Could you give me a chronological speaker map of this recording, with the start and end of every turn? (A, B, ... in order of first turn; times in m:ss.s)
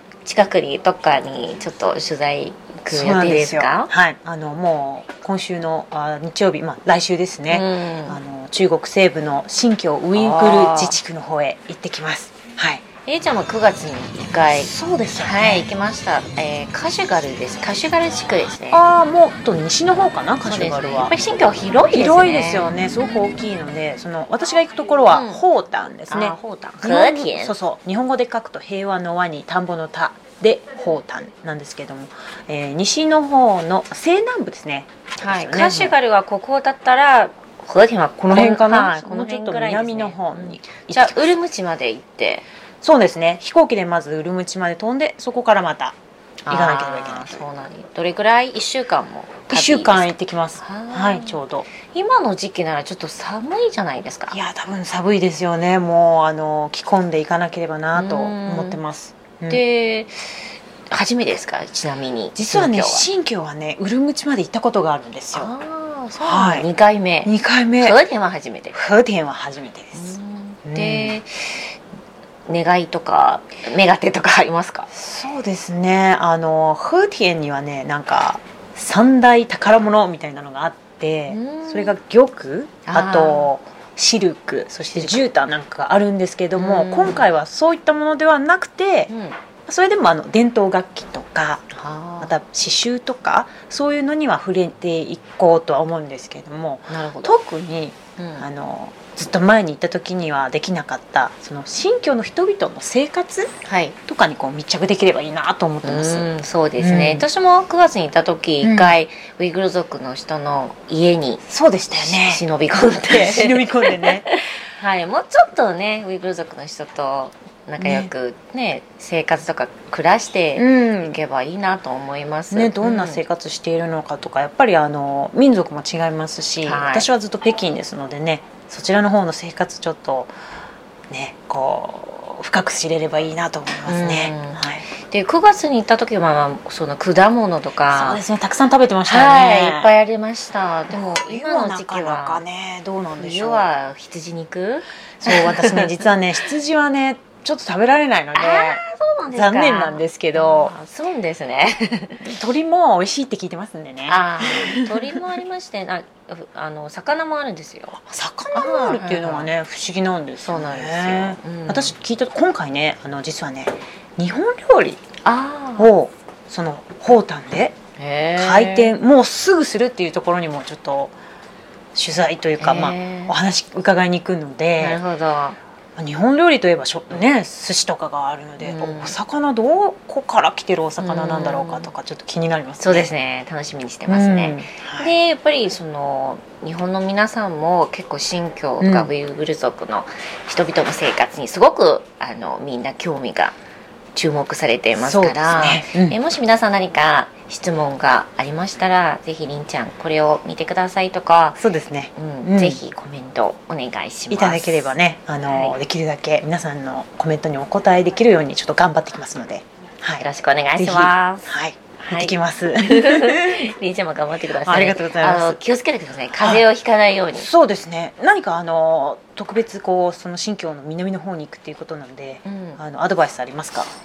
0:00.2-0:03.9 A
0:02.9-0:12.8 B
0:07.5-0:08.2 A
0:10.2-0:11.0 A
0:13.1-0:18.8 A
0:14.4-0:15.7 B
0:18.7-0:21.1 B
0:20.4-0:22.8 A
0:21.9-0:36.0 B
0:25.1-0:25.4 A
0:26.1-0:27.5 A
0:35.2-0:42.4 A
0:38.2-0:41.4 B
0:42.8-0:46.0 B
0:46.4-0:54.4 A
0:46.5-0:47.4 B
0:49.5-0:51.7 B
0:54.3-0:59.6 B
0:57.9-0:58.8 A
0:59.5-1:03.1 A
1:02.4-1:05.5 B
1:05.3-1:08.8 A
1:06.2-1:06.7 B
1:07.2-1:08.0 B
1:08.7-1:11.2 B
1:09.9-1:11.7 A
1:12.5-1:14.9 A
1:14.9-1:29.1 B
1:21.3-1:21.9 A
1:22.8-1:23.5 A
1:26.6-1:27.3 A
1:29.1-1:29.4 A
1:29.7-1:31.7 B
1:31.7-1:32.3 A
1:32.2-1:43.5 B
1:36.9-1:37.3 A
1:38.2-1:38.4 A
1:43.6-1:44.0 A
1:44.1-1:46.3 B
1:45.8-2:03.2 A
1:46.8-1:47.2 B
1:48.6-1:49.0 B
1:51.5-1:54.3 B
1:57.8-1:58.1 B
2:00.6-2:01.2 B
2:02.5-2:10.3 B
2:06.6-2:07.1 A
2:11.1-2:14.9 B
2:13.8-2:18.2 A
2:17.9-2:19.9 B
2:19.1-2:22.4 A
2:20.9-2:23.7 B
2:23.2-2:26.0 A
2:25.2-2:30.8 B
2:28.3-2:32.2 A
2:32.2-2:35.2 B
2:34.1-2:38.0 A
2:38.0-2:45.0 B
2:38.5-2:39.5 A
2:40.4-2:41.9 A
2:45.2-2:45.9 A
2:45.8-2:47.8 B
2:48.0-2:48.9 A
2:48.4-2:51.1 B
2:51.9-2:55.0 B
2:52.6-2:53.4 A
2:54.8-2:55.6 A
2:56.0-3:03.1 B
2:58.6-2:59.2 A
3:01.0-3:01.9 A
3:02.8-3:13.5 A
3:04.1-3:05.1 B
3:08.8-3:09.1 B
3:14.1-3:21.6 A
3:15.0-3:16.2 B
3:21.6-3:22.8 B
3:22.2-3:24.9 A
3:24.3-3:30.2 B
3:25.5-3:25.8 A
3:30.2-3:31.5 A
3:30.8-3:33.7 B
3:32.0-3:37.5 A
3:34.4-3:35.6 B
3:36.4-3:36.7 B
3:37.3-3:43.9 B
3:42.4-3:42.8 A